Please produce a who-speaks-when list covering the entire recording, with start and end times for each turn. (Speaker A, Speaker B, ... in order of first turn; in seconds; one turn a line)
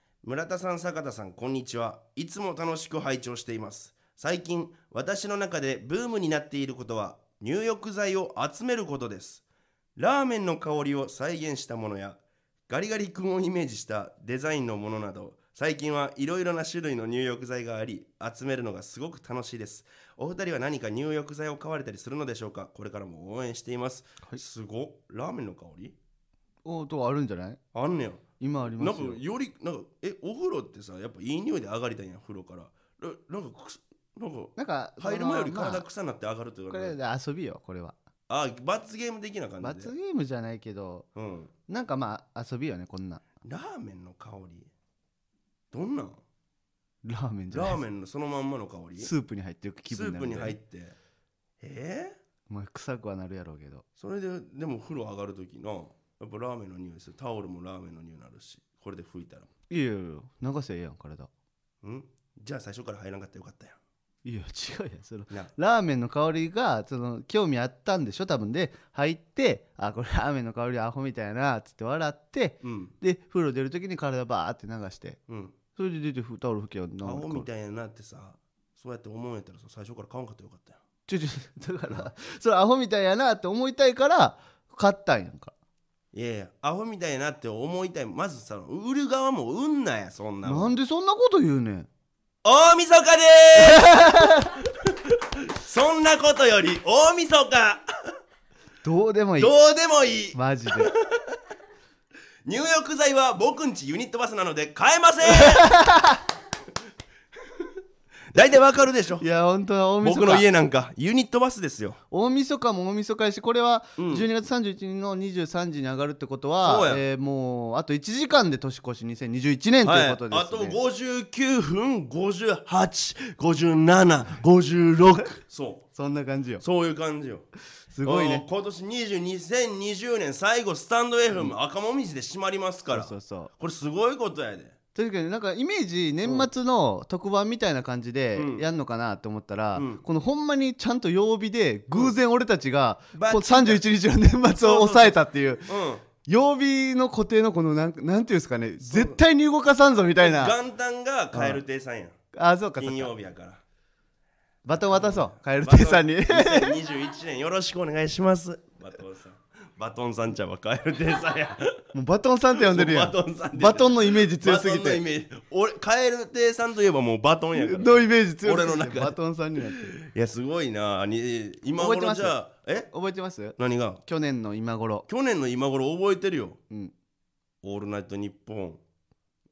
Speaker A: 0.2-9.4
Speaker A: 10.0-26.0
Speaker B: 26.6-27.6
Speaker A: 27.7-37.0
Speaker B: 28.4-29.2
Speaker B: 34.6-35.8
Speaker B: 36.7-38.0
Speaker A: 38.3-39.9
Speaker B: 39.6-41.1
Speaker A: 41.1-41.5
Speaker B: 41.7-43.3
Speaker A: 43.4-44.7
Speaker A: 45.7-46.2
Speaker B: 47.0-47.8
Speaker A: 47.5-49.1
Speaker B: 49.0-50.6
Speaker A: 49.9-51.0
Speaker A: 51.6-52.2
Speaker B: 52.5-53.8
Speaker A: 54.0-59.5
Speaker B: 59.7-61.3
Speaker A: 61.8-63.8
Speaker B: 64.2-75.2
Speaker A: 72.6-72.9
Speaker A: 75.3-75.5
Speaker B: 75.8-77.5
Speaker A: 77.0-80.8
Speaker B: 81.1-85.5
Speaker A: 86.1-90.7
Speaker B: 90.4-91.9
Speaker A: 92.4-97.8
Speaker B: 93.6-94.6
Speaker B: 98.8-99.5
Speaker A: 99.4-101.2
Speaker B: 100.3-100.9
Speaker A: 102.5-105.8
Speaker B: 105.3-106.2
Speaker A: 108.3-109.2
Speaker B: 109.2-110.5
Speaker A: 110.0-112.0
Speaker B: 112.1-120.8
Speaker A: 114.0-114.2
Speaker A: 116.6-117.0
Speaker A: 119.8-125.8
Speaker B: 126.0-126.6
Speaker A: 126.6-127.5
Speaker B: 127.9-128.4
Speaker A: 128.1-134.7
Speaker B: 132.9-133.5
Speaker B: 134.9-145.7
Speaker A: 136.2-136.5
Speaker A: 138.4-138.6
Speaker A: 139.7-140.0
Speaker A: 143.1-143.8
Speaker A: 144.5-146.0
Speaker B: 146.2-150.6
Speaker A: 148.8-149.2
Speaker A: 150.2-152.2
Speaker B: 151.3-151.6
Speaker B: 152.3-153.1
Speaker A: 152.8-153.6
Speaker B: 154.7-156.8
Speaker A: 154.9-161.8
Speaker B: 161.9-165.0
Speaker A: 162.6-169.2
Speaker B: 167.6-169.9
Speaker A: 169.8-172.9
Speaker B: 171.8-172.4
Speaker B: 172.9-175.1
Speaker A: 173.6-174.0
Speaker A: 175.1-176.6
Speaker A: 177.6-178.8